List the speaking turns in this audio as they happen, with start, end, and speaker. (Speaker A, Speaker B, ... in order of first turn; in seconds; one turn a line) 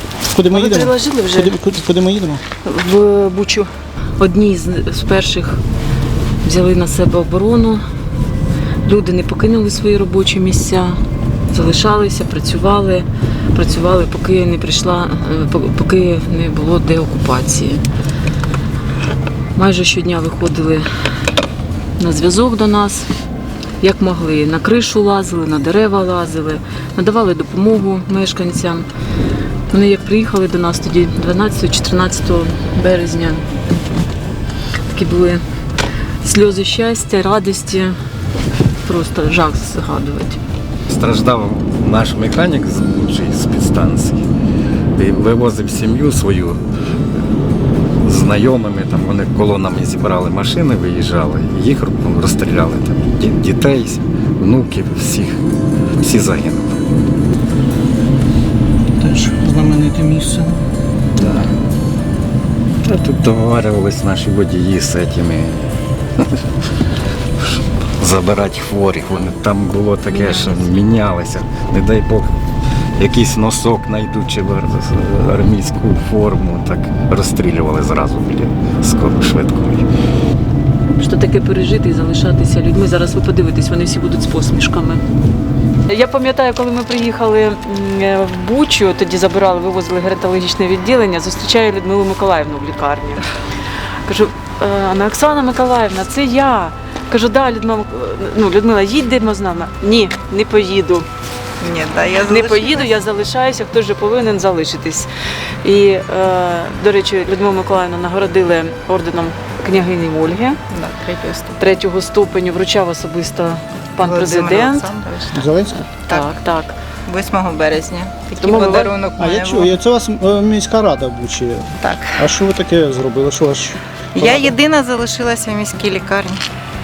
Speaker A: 0.3-2.4
Speaker B: 0.5-1.6
Speaker B: 2.6-5.6
Speaker B: 6.4-7.8
Speaker B: 8.8-17.8
Speaker B: 19.5-20.9
Speaker B: 22.0-23.1
Speaker B: 23.8-28.9
Speaker B: 29.7-33.5
Speaker B: 34.9-35.4
Speaker B: 36.2-38.0
Speaker B: 38.8-40.4
Speaker C: 40.9-44.3
Speaker C: 45.0-46.6
Speaker C: 48.0-55.4
Speaker C: 56.0-56.8
Speaker A: 59.0-60.6
Speaker C: 61.2-61.5
Speaker C: 62.8-66.3
Speaker C: 67.4-72.3
Speaker B: 70.1-70.8
Speaker C: 73.0-79.8
Speaker B: 80.9-85.0
Speaker B: 85.9-93.2
Speaker B: 94.0-101.1
Speaker D: 101.6-102.9
Speaker B: 102.2-105.1
Speaker B: 105.6-110.6
Speaker D: 110.7-111.6
Speaker B: 111.6-114.9
Speaker D: 114.0-115.5
Speaker A: 115.3-115.8
Speaker B: 116.1-116.8
Speaker D: 117.1-119.8
Speaker B: 118.3-119.0
Speaker A: 119.2-124.5
Speaker D: 121.8-122.3
Speaker D: 124.1-126.4